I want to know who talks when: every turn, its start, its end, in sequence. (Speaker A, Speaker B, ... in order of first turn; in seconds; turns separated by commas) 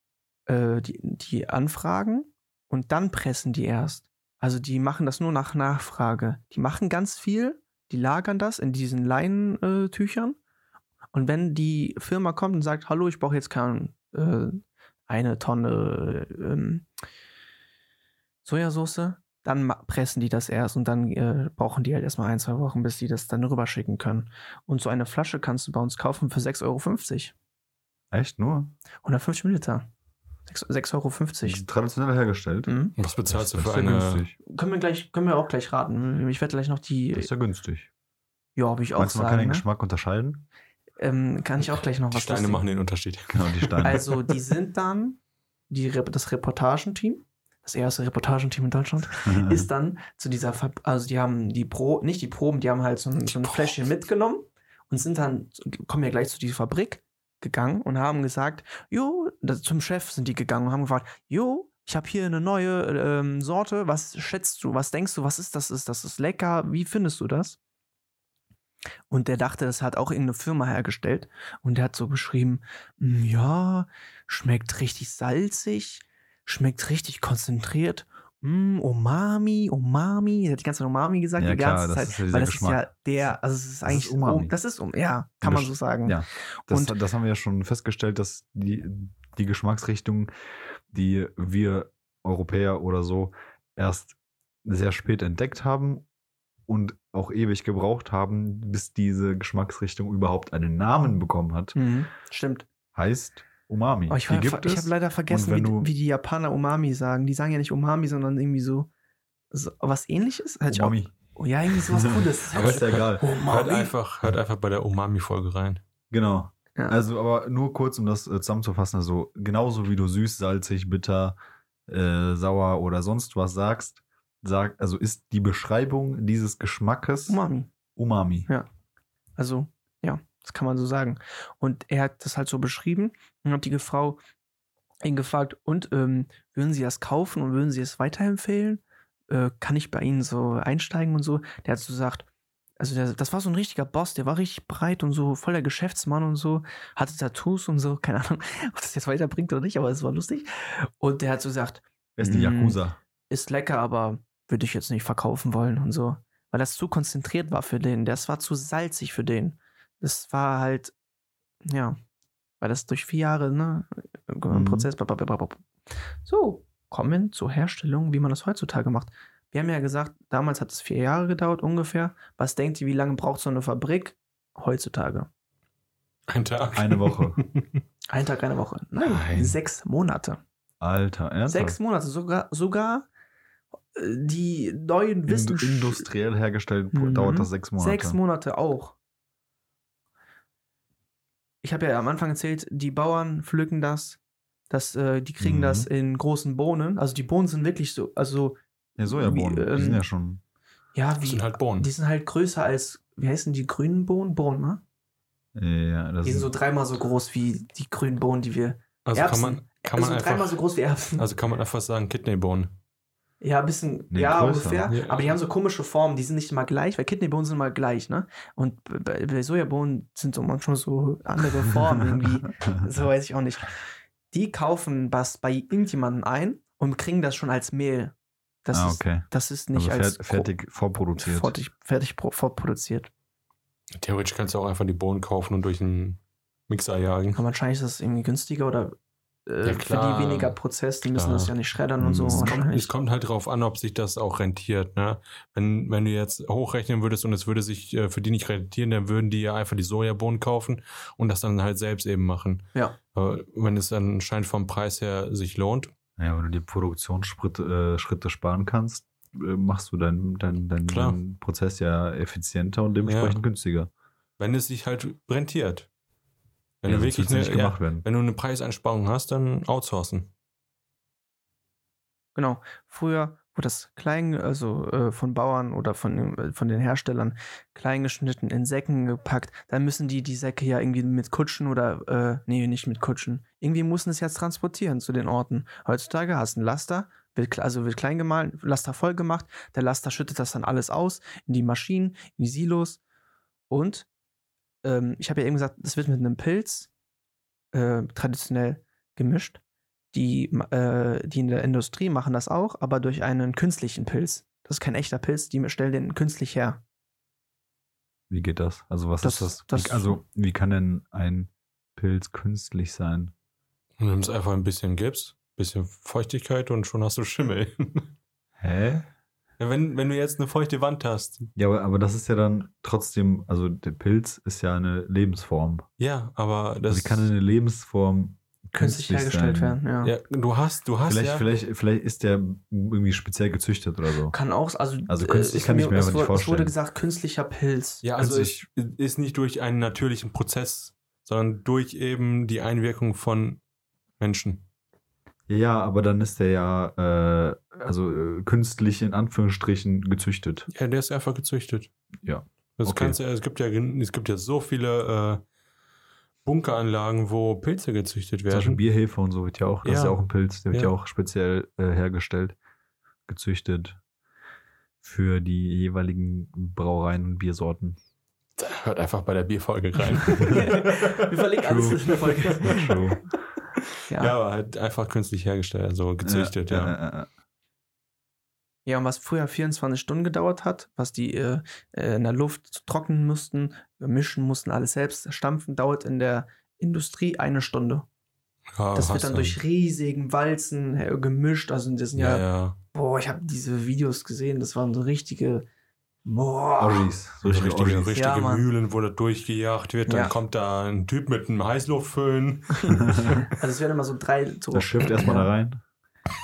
Speaker A: 0.5-10.4, Speaker A: 11.1-16.9, Speaker A: 18.4-27.3, Speaker B: 28.1-28.8, Speaker A: 29.0-29.9, Speaker A: 30.5-31.6, Speaker B: 31.4-32.7, Speaker A: 32.7-32.9, Speaker C: 33.0-34.3, Speaker B: 33.3-34.4, Speaker A: 34.4-37.3, Speaker B: 37.1-37.9, Speaker A: 38.6-39.7, Speaker B: 39.0-40.5, Speaker A: 41.0-42.6, Speaker C: 42.1-44.4, Speaker B: 43.3-44.0, Speaker A: 43.8-45.2, Speaker A: 45.7-67.6, Speaker B: 49.2-49.7, Speaker C: 53.4-53.7, Speaker A: 69.1-87.0, Speaker B: 81.4-82.9, Speaker B: 83.9-84.5, Speaker B: 85.4-90.3, Speaker B: 90.9-96.1, Speaker B: 96.7-101.8, Speaker A: 101.8-102.7, Speaker B: 102.9-105.9, Speaker A: 104.1-108.9, Speaker A: 109.5-113.9, Speaker B: 110.7-111.1, Speaker B: 111.7-113.3, Speaker C: 112.6-115.8, Speaker B: 116.1-121.4, Speaker A: 116.8-117.0, Speaker B: 121.9-127.4, Speaker A: 127.3-127.7, Speaker B: 128.0-128.5, Speaker A: 129.4-134.2, Speaker A: 135.0-142.3, Speaker A: 142.8-152.8, Speaker B: 152.2-153.0, Speaker A: 153.3-160.9, Speaker A: 161.7-162.0, Speaker A: 162.6-165.7, Speaker B: 164.5-164.9, Speaker A: 166.2-175.3, Speaker C: 176.3-177.7, Speaker B: 176.8-177.4, Speaker A: 178.1-180.4, Speaker C: 179.0-179.6, Speaker B: 180.8-181.8, Speaker A: 181.5-183.1, Speaker A: 183.9-186.1, Speaker B: 185.3-188.2, Speaker A: 186.9-188.9, Speaker A: 191.6-194.2, Speaker A: 194.7-200.0, Speaker B: 195.4-195.9, Speaker B: 199.0-200.4, Speaker A: 200.9-204.8, Speaker C: 201.2-201.9, Speaker B: 205.6-206.5, Speaker A: 206.2-211.2, Speaker C: 209.1-210.6, Speaker C: 211.2-212.7, Speaker A: 213.4-223.8, Speaker B: 214.1-214.9, Speaker C: 214.9-215.3, Speaker A: 224.3-230.5, Speaker B: 228.7-231.6, Speaker A: 231.2-233.1, Speaker C: 234.0-237.4, Speaker A: 237.3-239.0, Speaker A: 239.5-242.9, Speaker C: 239.6-240.6, Speaker C: 241.1-241.6, Speaker B: 242.0-242.5, Speaker C: 242.1-255.9, Speaker B: 256.2-263.9, Speaker C: 260.9-261.2, Speaker C: 263.1-263.4, Speaker C: 264.4-265.9, Speaker C: 266.8-270.3, Speaker B: 266.9-268.1, Speaker A: 272.4-293.0, Speaker A: 293.7-294.1, Speaker A: 294.8-296.9, Speaker A: 297.7-299.6, Speaker A: 300.1-306.8, Speaker B: 308.3-313.3, Speaker A: 309.2-310.2, Speaker C: 314.0-318.1, Speaker B: 318.6-319.1, Speaker C: 319.6-321.5, Speaker B: 321.6-325.9, Speaker C: 326.0-327.3, Speaker B: 326.9-329.8, Speaker A: 328.8-330.1, Speaker C: 330.0-331.4, Speaker B: 331.1-334.4, Speaker A: 334.3-338.1, Speaker B: 335.1-336.7, Speaker C: 338.0-343.6, Speaker B: 338.2-338.6, Speaker C: 344.2-344.6, Speaker B: 345.5-350.7, Speaker C: 350.7-351.9, Speaker B: 352.2-353.2, Speaker C: 352.8-355.4, Speaker C: 356.4-358.8, Speaker B: 358.5-362.6, Speaker C: 359.8-360.9, Speaker B: 363.3-364.0, Speaker B: 365.0-368.0, Speaker C: 368.6-371.4, Speaker A: 370.2-373.0, Speaker B: 371.6-373.2, Speaker C: 372.4-372.9, Speaker A: 374.1-374.4, Speaker C: 374.1-377.0, Speaker B: 376.2-377.3, Speaker A: 378.9-388.1, Speaker C: 388.7-389.6, Speaker A: 388.9-395.7, Speaker C: 392.1-392.8, Speaker A: 396.2-397.1, Speaker B: 396.8-398.2, Speaker C: 397.4-403.5, Speaker A: 398.1-398.7, Speaker A: 400.1-400.3, Speaker A: 402.9-405.5, Speaker B: 403.1-403.4, Speaker B: 404.7-405.8